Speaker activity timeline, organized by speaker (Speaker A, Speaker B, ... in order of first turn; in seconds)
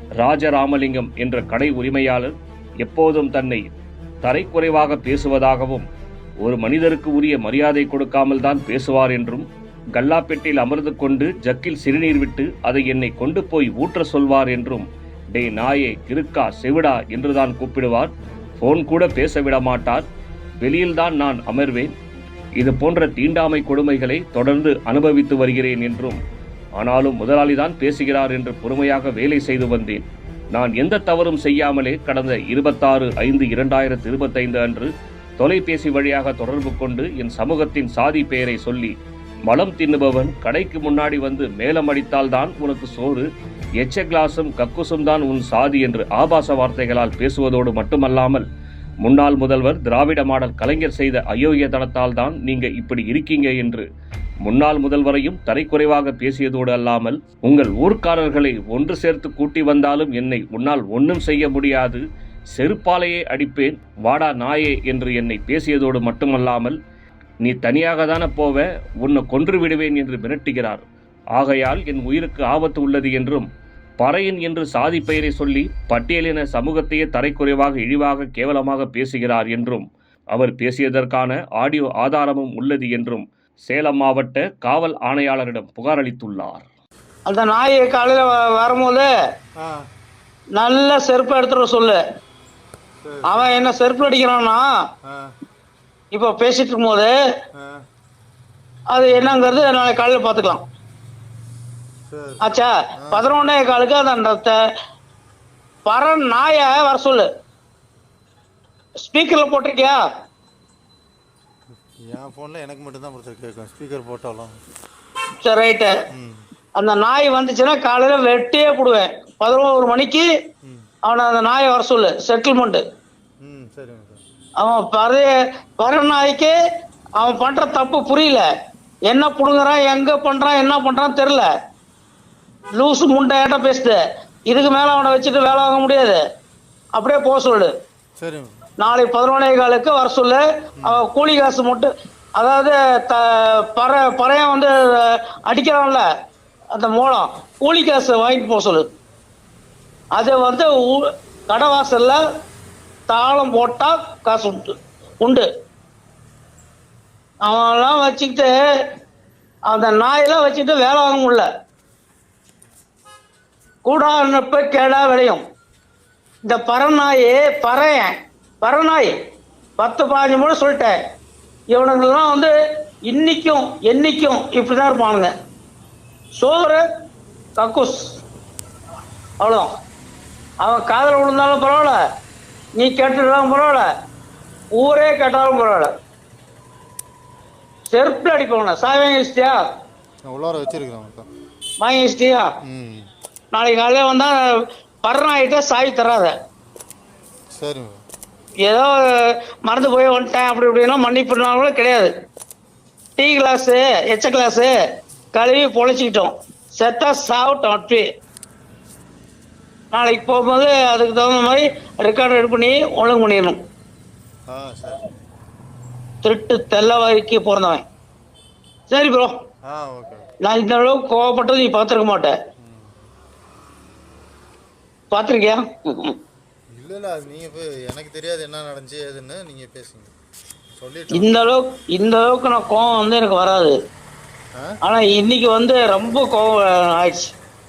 Speaker A: 0.2-3.7, 4.2-5.9, 6.4-9.4, 10.0-20.1, 20.6-21.9, 22.6-26.2, 26.8-38.9, 39.5-43.2, 43.8-48.4, 49.0-53.9, 54.5-62.0, 62.5-66.8, 67.4-70.8, 71.3-73.5, 74.0-86.7
Speaker B: 87.2-89.1, 90.5-92.0, 93.2-94.7, 96.1-97.1, 98.9-100.6, 102.4-104.6, 105.8-107.3, 109.0-110.0, 115.4-115.9, 116.8-120.3, 121.0-122.8, 124.6-126.5, 127.2-128.5, 129.1-131.5, 132.7-136.2, 136.9-137.7, 138.8-146.1, 146.7-148.9, 150.1-152.2, 153.1-155.5, 157.4-158.5, 159.7-161.5, 163.8-165.4, 166.4-169.1, 169.8-171.0, 171.7-172.5, 173.1-175.3, 176.3-176.8, 177.6-178.0, 179.4-179.7, 180.6-182.0, 182.8-183.9, 184.8-185.9, 187.9-189.6, 191.8-192.5, 193.5-194.4, 195.0-196.3, 198.7-202.1, 203.2-204.7, 205.3-208.0, 209.9-213.6, 216.2-217.8, 218.9-219.3, 220.4-222.3, 225.1-226.2, 231.1-233.8, 234.8-237.3
Speaker C: 89.5-89.9, 93.0-93.5, 95.0-95.3, 97.5-97.8, 102.1-103.3, 112.0-114.6, 116.1-116.5, 123.4-124.2, 138.2-138.6, 140.8-141.0, 190.2-191.3, 192.6-193.1, 197.5-198.0, 214.5-215.0, 219.6-220.2, 222.6-223.0, 226.7-230.1, 230.7-231.3